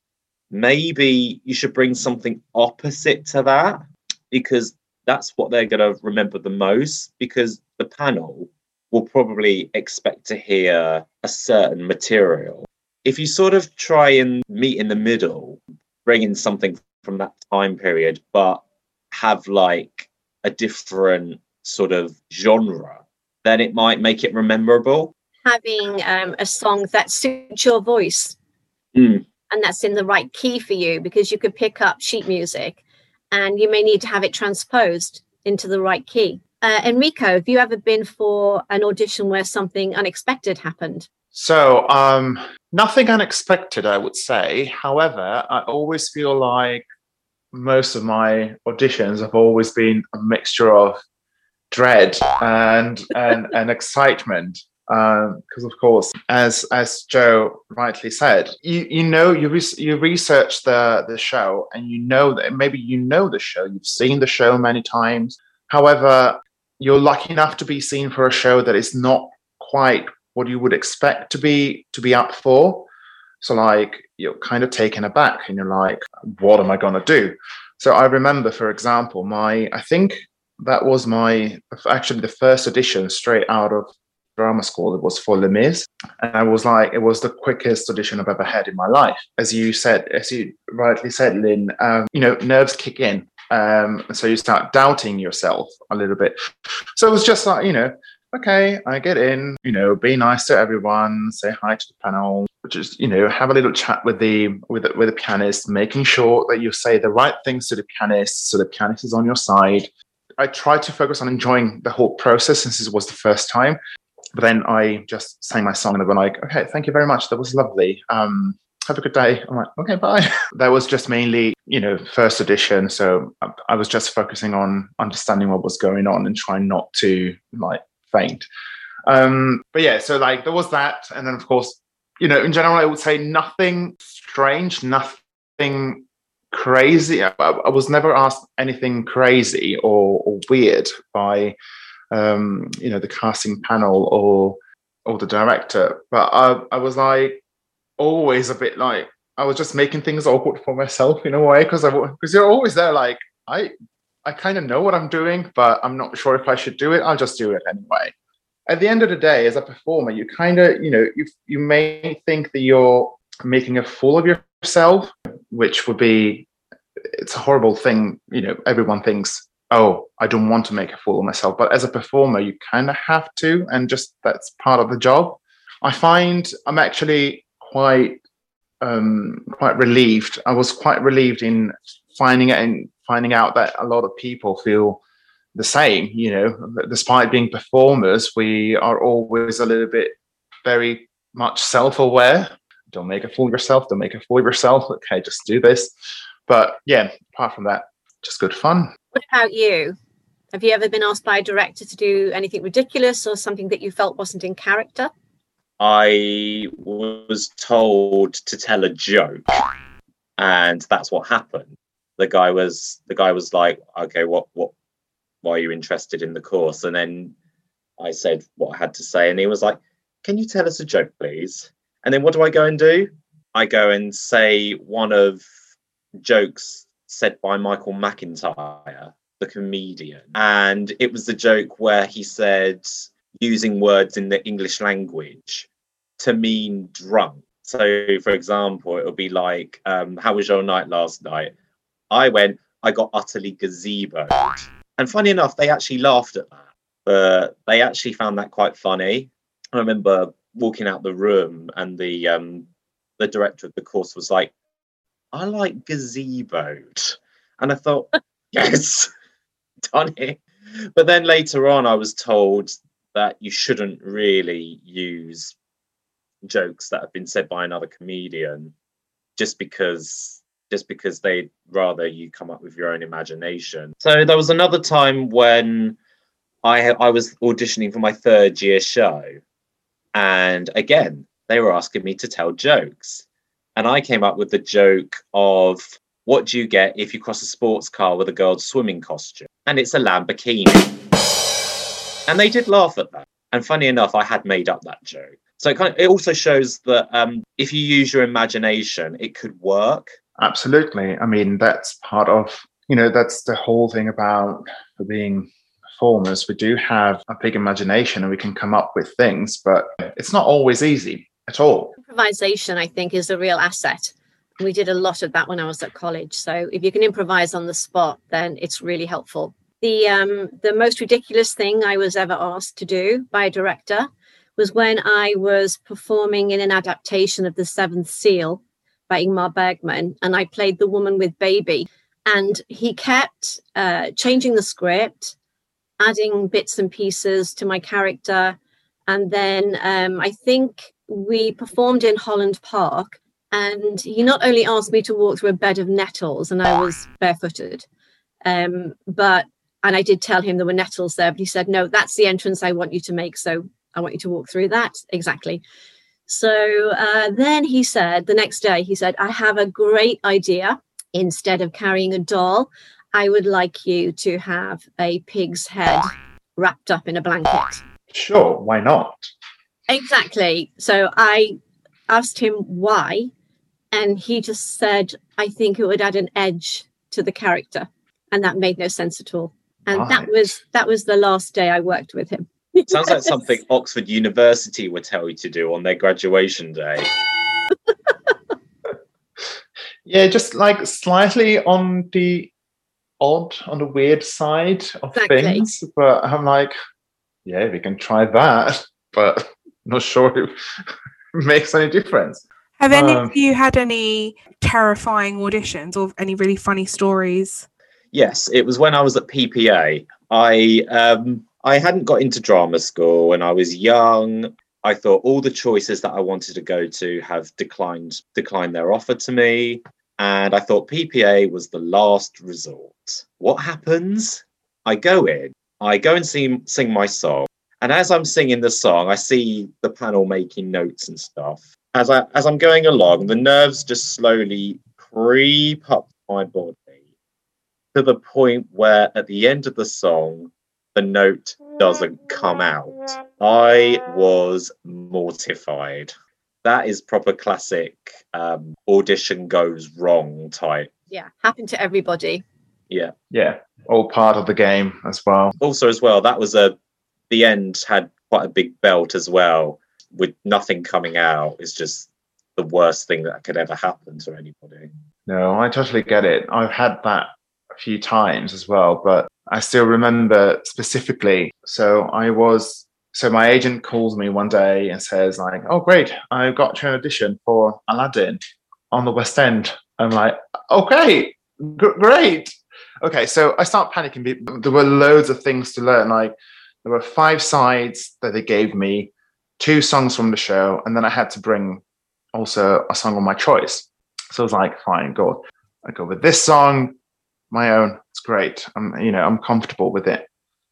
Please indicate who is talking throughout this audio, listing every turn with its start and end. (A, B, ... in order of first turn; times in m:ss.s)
0:00.5-0:25.1 A
0:25.4-0:28.4 B
0:28.9-0:29.2 A
0:29.5-0:32.8 B
0:33.3-0:41.1 B
0:41.3-0:46.9 C
0:47.5-0:51.0 C
0:51.7-1:12.9 C
1:13.4-1:49.9 C
1:50.4-1:53.8 C
1:54.3-2:08.5 C
2:09.1-2:21.6 C
2:22.1-2:27.4 C
2:28.0-2:33.7 C
2:34.2-2:38.1 C
2:38.7-2:46.5 C
2:47.1-2:58.2 C
2:58.8-3:05.0 C
3:05.5-3:15.9 C
3:16.5-3:18.9 C
3:19.1-3:20.0 B
3:20.5-3:25.1 B
3:25.8-3:29.7 A
3:30.4-3:34.7 A
3:35.4-3:37.3 A
3:38.0-3:45.4 A
3:46.2-3:55.7 A
3:56.2-4:01.5 A
4:02.1-4:12.6 A
4:13.2-4:14.5 A
4:15.3-4:19.1 A
4:19.9-4:20.4 A
4:20.9-4:25.5 A
4:26.4-4:28.7 A
4:29.4-4:36.0 A
4:36.6-4:39.3 A
4:40.1-4:43.2 A
4:43.8-4:51.0 A
4:52.3-5:00.1 A
5:00.4-5:11.9 C
5:12.0-5:35.4 B
5:36.0-5:38.6 B
5:39.1-5:47.8 B
5:48.4-5:55.6 B
5:56.3-6:07.8 B
6:08.1-6:09.3 C
6:09.9-6:11.6 B
6:12.1-6:13.3 B
6:13.9-6:23.4 B
6:19.9-6:20.5 C
6:22.9-6:27.1 A
6:30.0-6:32.5 C
6:33.2-6:36.7 C
6:35.1-6:35.6 B
6:37.4-6:40.5 C
6:41.3-6:43.3 C
6:42.8-6:47.6 D
6:48.1-7:16.9 A
7:17.9-7:26.1 A
7:26.6-7:30.9 A
7:31.1-7:32.4 B
7:33.3-7:35.5 C
7:35.6-7:36.8 A
7:37.3-7:44.9 A
7:45.3-8:11.8 C
8:12.3-8:17.0 C
8:17.5-8:20.2 C